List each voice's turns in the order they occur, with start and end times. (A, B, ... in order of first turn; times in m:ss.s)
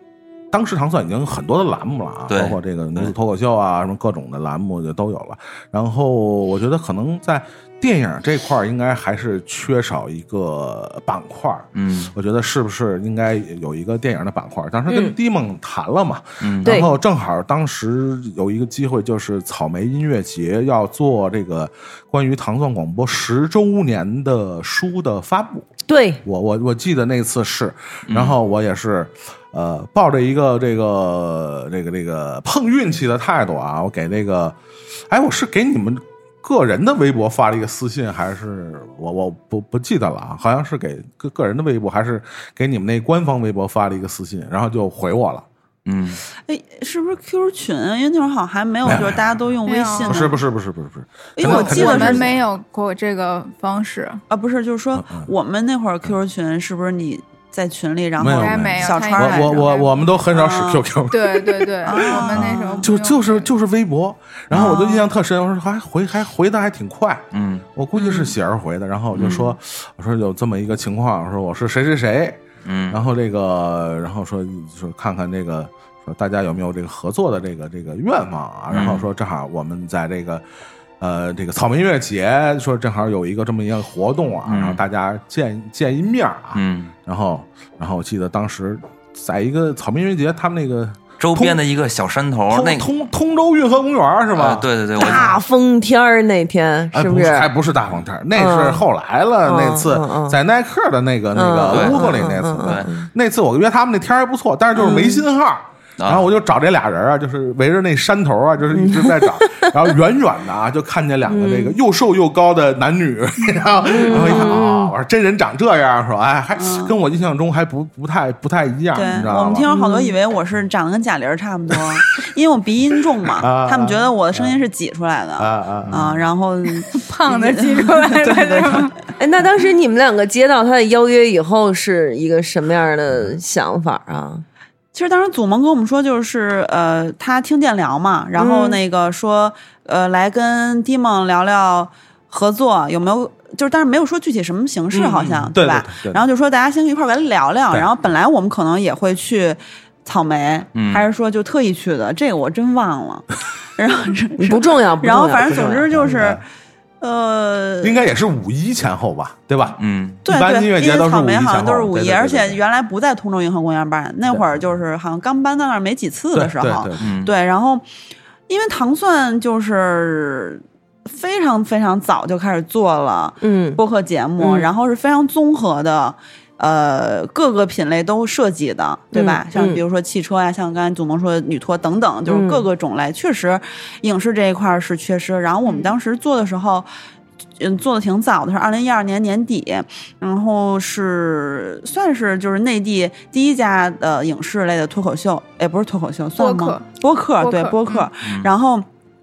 0:00.5-0:25.7 A
0:02.3-0:03.1 B
0:11.8-0:12.1 B
0:14.9-0:15.1 C
0:16.4-0:16.9 B
0:16.6-0:16.9 C
0:25.9-0:26.2 C
0:26.2-0:34.6 A
0:28.1-0:28.4 B
0:35.1-0:45.4 A
0:45.9-0:46.2 B
0:46.5-0:50.4 D
0:48.8-0:49.2 A
0:49.7-0:50.3 E
0:50.0-0:52.4 A
0:51.4-0:52.3 D
0:51.4-0:54.2 E
0:54.3-0:59.7 D
0:55.0-0:55.3 A
0:58.2-1:20.4 A
0:58.3-1:00.0 E
1:00.3-1:00.8 D
1:01.1-1:03.5 E
1:01.8-1:02.9 D
1:04.5-1:05.1 D
1:07.3-1:07.6 B
1:09.2-1:09.5 B
1:12.6-1:13.0 B
1:18.7-1:19.1 B
1:21.0-1:31.6 A
1:24.5-1:24.8 B
1:26.6-1:26.9 B
1:31.2-1:32.9 B
1:32.5-1:34.7 A
1:34.4-1:35.4 B
1:35.0-1:37.5 C
1:36.9-1:59.7 A
1:38.4-1:38.8 C
1:39.4-1:40.4 C
1:41.4-1:43.1 C
1:41.7-1:42.9 B
1:44.8-1:45.2 C
1:46.0-1:46.3 B
1:48.7-1:49.7 C
1:51.3-1:51.8 C
1:53.9-1:54.9 C
1:56.6-1:56.9 D
1:58.9-2:08.9 D
1:59.7-2:00.1 C
2:03.4-2:04.6 A
2:05.4-2:06.3 A
2:06.9-2:08.9 E
2:09.2-2:14.4 C
2:14.9-2:36.4 D
2:18.4-2:18.8 C
2:24.9-2:26.2 A
2:30.8-2:31.0 B
2:34.4-2:35.9 C
2:35.9-2:36.4 A
2:37.0-2:38.0 D
2:37.8-2:42.6 A
2:39.8-2:40.2 B
2:40.3-2:47.8 D
2:46.3-2:47.1 A
2:47.0-2:47.3 B
2:48.5-3:06.9 D
2:53.4-2:53.8 C
2:54.4-2:54.7 C
2:59.1-2:59.8 C
3:02.3-3:02.6 C
3:07.6-3:18.9 D
3:16.4-3:16.9 E
3:17.4-3:18.1 E
3:18.2-3:18.5 B